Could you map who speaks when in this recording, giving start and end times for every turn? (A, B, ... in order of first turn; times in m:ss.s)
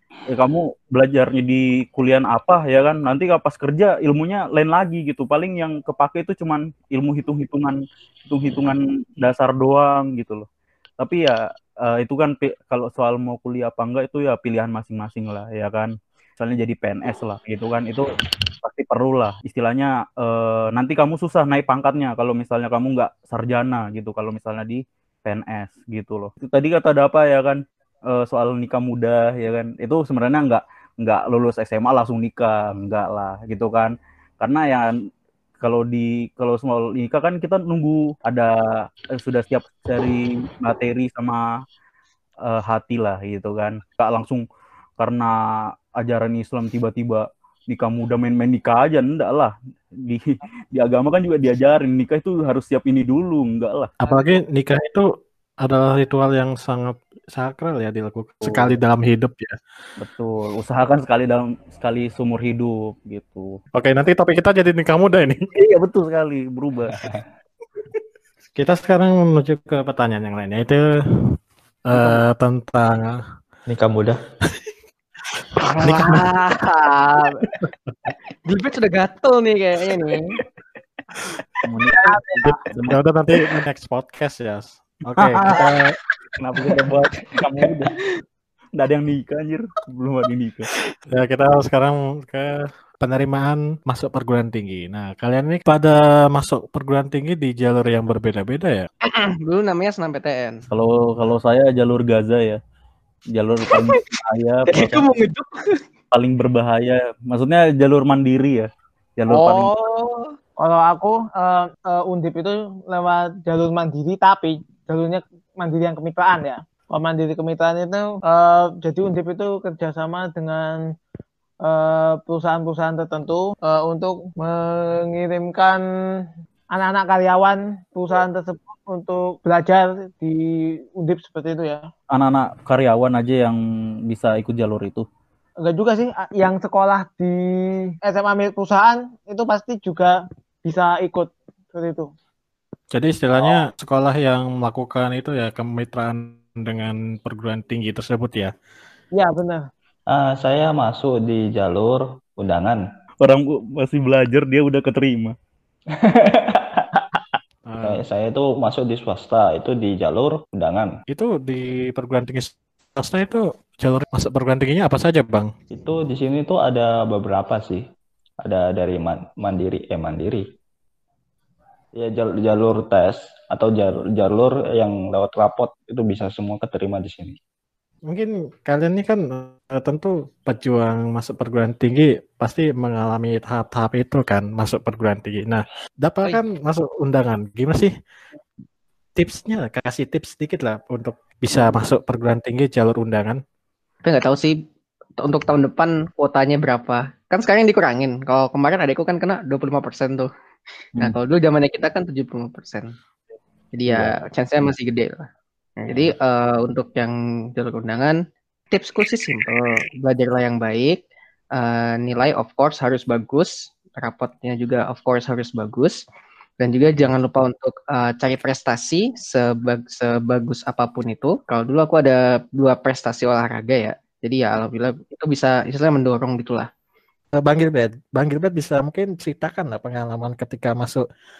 0:00.3-0:10.4 A
0:11.0-0:18.1 A
0:18.6-0:34.9 A
0:35.6-0:41.5 A
0:42.4-0:44.4 A
0:45.0-0:45.4 A
0:46.0-0:53.9 A
0:54.0-0:55.0 B
0:55.6-0:59.6 B
0:58.4-0:58.8 A
1:00.0-1:03.6 A
1:03.8-1:05.5 B
1:05.5-1:07.1 A
1:08.6-1:10.8 B
1:11.9-1:13.2 B
1:13.7-1:14.2 C
1:15.6-1:17.5 D
1:15.8-1:16.2 B
1:18.4-1:20.4 D
1:21.7-1:23.0 A
1:22.4-1:25.9 B
1:25.2-1:25.7 A
1:26.3-1:27.9 A
1:28.8-1:30.7 A
1:31.1-1:38.9 B
1:39.0-1:40.6 D
1:40.7-1:42.6 A
1:43.3-1:45.0 A
1:43.7-1:44.0 D
1:44.7-1:45.6 D
1:46.1-1:49.7 A
1:49.3-1:50.3 D
1:50.6-2:00.8 E
2:01.6-2:10.4 E
2:11.0-2:11.8 E
2:12.1-2:13.6 A
2:14.1-2:15.0 A
2:15.6-2:22.1 E
2:22.9-2:28.5 B
2:29.1-2:29.6 E
2:30.1-2:32.8 C
2:33.2-2:35.3 A
2:36.0-2:37.0 C
2:37.7-2:38.0 B
2:37.8-2:40.9 C
2:41.1-2:45.5 B
2:45.7-2:47.8 C
2:48.4-2:50.4 C
2:52.0-2:57.4 C
2:58.1-3:07.9 B
3:09.2-3:13.4 B
3:14.0-3:14.6 D
3:15.2-3:20.3 D
3:21.0-3:22.9 D
3:23.7-3:25.2 D
3:25.8-3:28.2 D
3:28.7-3:31.0 D
3:31.5-3:36.0 D
3:36.6-3:46.7 D
3:47.4-3:51.0 B